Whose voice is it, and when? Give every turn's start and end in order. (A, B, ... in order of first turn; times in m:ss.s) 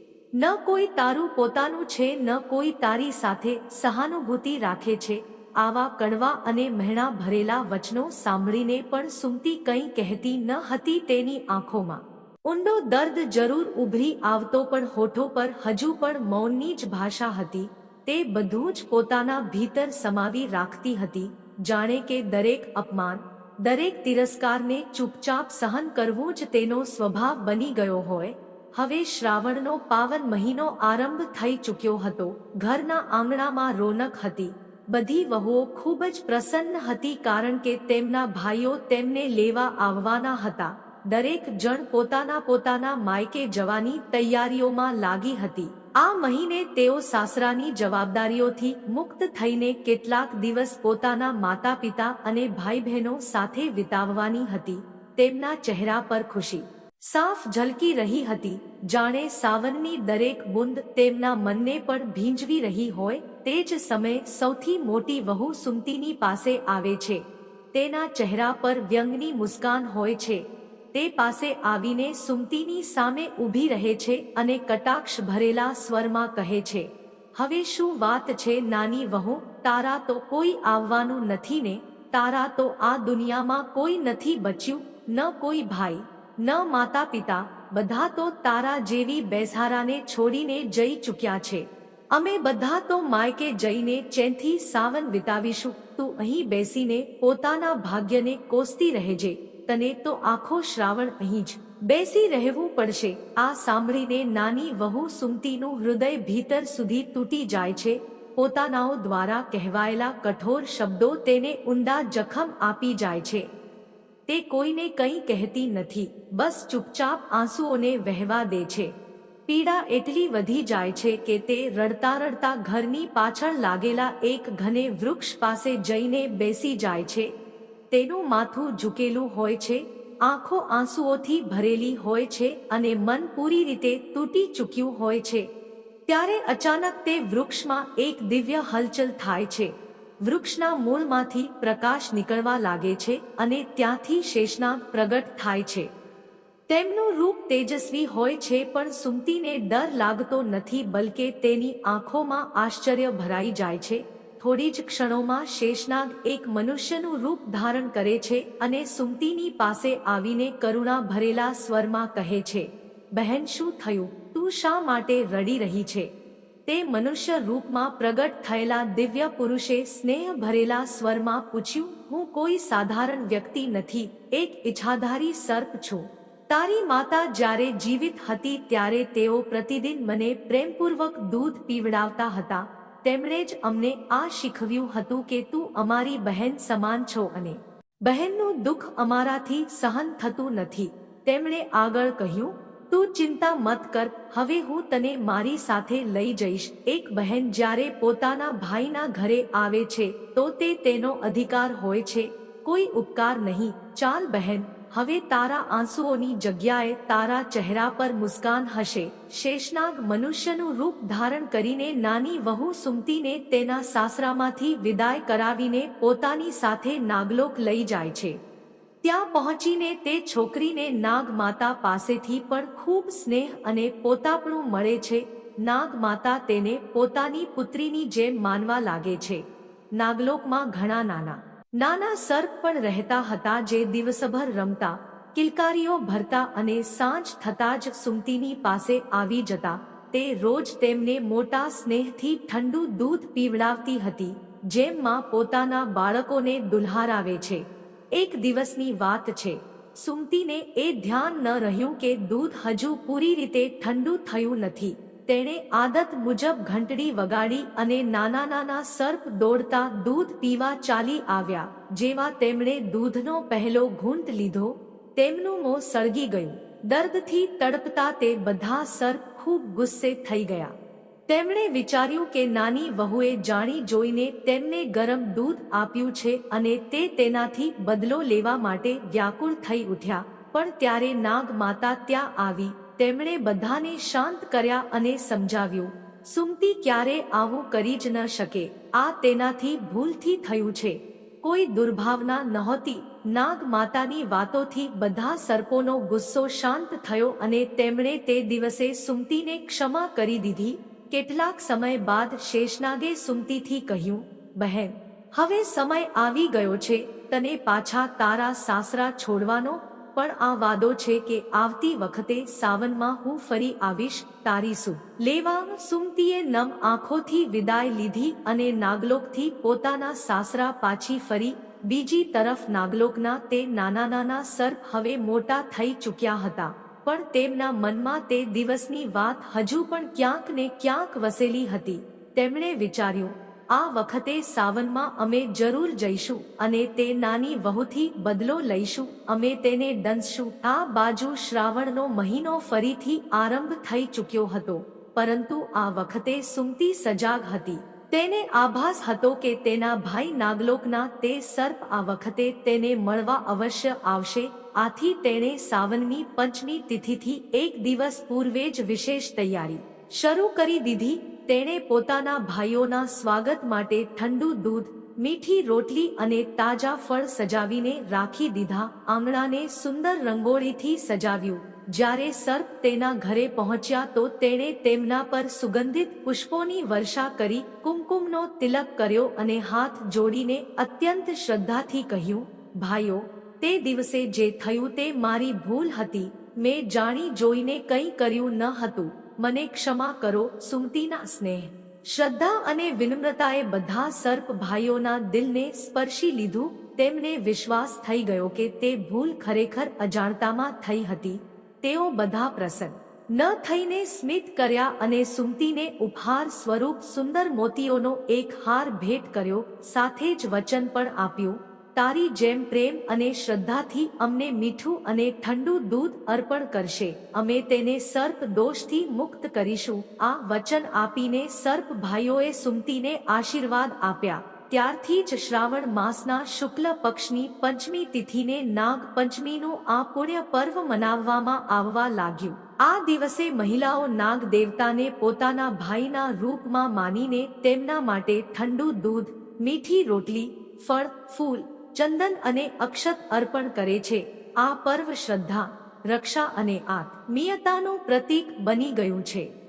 0:00.4-1:53.4 A
1:54.3-1:58.9 A
1:59.5-2:07.3 A
2:07.9-2:15.5 A
2:16.1-2:25.9 A
2:26.7-2:46.1 A
2:46.7-3:38.4 A
3:39.0-3:49.4 A
3:50.0-4:30.7 A
4:31.3-7:29.5 A